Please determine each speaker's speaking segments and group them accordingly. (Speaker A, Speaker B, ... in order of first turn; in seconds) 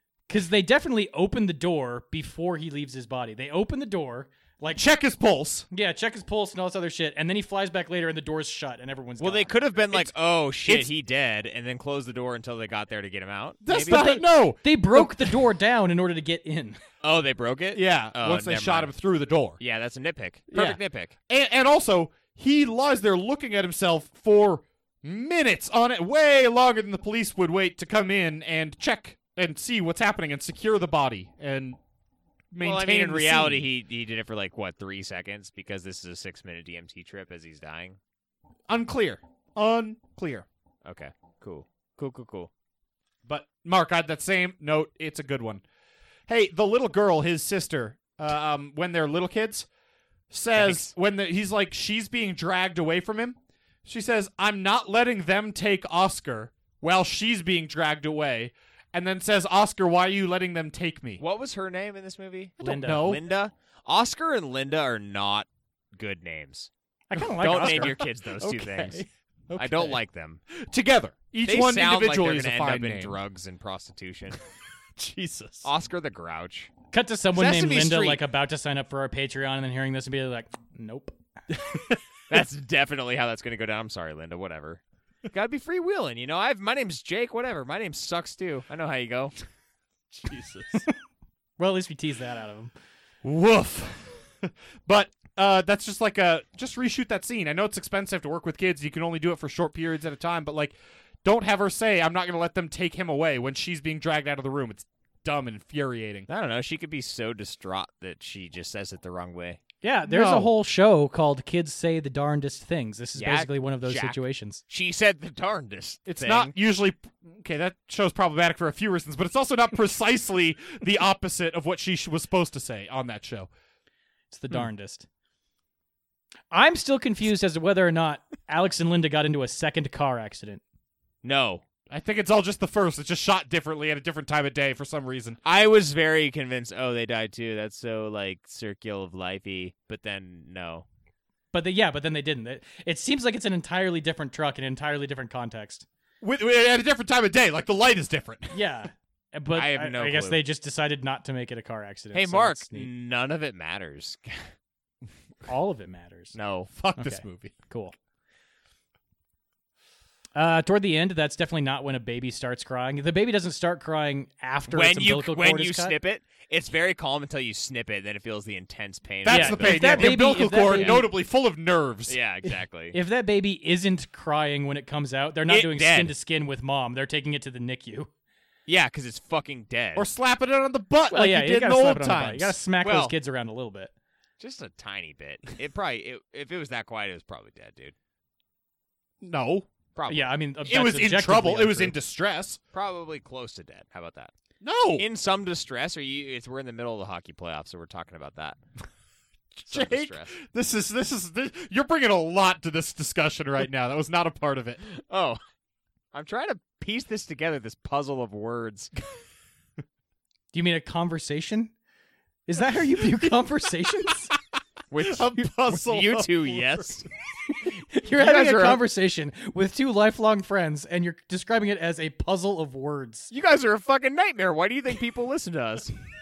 Speaker A: 0.3-4.8, 5.7-9.5, 13.9-16.8, 62.6-63.1, 67.1-68.0, 76.9-81.2, 91.6-92.7, 109.8-114.6, 124.3-125.0, 126.5-130.6, 141.5-145.8, 148.5-152.9, 155.4-156.3, 157.0-157.9, 160.3-165.9, 169.3-171.1, 172.9-178.1, 181.1-183.9, 190.1-191.9, 210.5-211.7, 212.5-214.3, 217.9-223.3
Speaker B: 4.7-5.7, 10.6-10.9, 13.6-15.4, 17.7-19.6, 20.5-31.8, 32.5-33.7, 38.7-40.5, 43.2-45.6, 46.3-49.7, 50.3-61.2, 62.6-63.2, 67.2-70.0, 70.5-73.2, 75.0-75.7, 90.1-90.8, 93.2-106.3, 110.1-110.5, 116.1-123.5, 131.9-135.4, 146.2-148.6, 156.7-157.5, 169.2-172.2, 179.9-182.6, 189.2-189.7, 190.7-192.6, 194.6-195.1, 199.6-204.8, 215.0-217.0
Speaker C: 9.2-14.0, 17.0-18.9, 19.6-21.1, 32.6-38.0, 40.8-42.5, 50.5-50.9, 61.2-66.7, 67.4-69.0, 69.6-70.4, 71.5-74.4, 75.6-76.7, 77.3-78.2, 82.3-89.3, 106.3-109.6, 113.2-116.5, 131.2-131.6, 135.4-140.8, 149.5-150.4, 152.1-154.5, 156.3-156.7, 164.7-171.0, 172.1-172.9, 175.5-176.1, 178.7-180.1, 182.8-183.1, 184.4-187.9, 189.9-190.3, 192.7-194.3, 195.0-198.6, 199.7-200.3, 204.9-205.4, 206.1-208.9, 214.9-217.1, 218.2-218.8, 223.3-225.9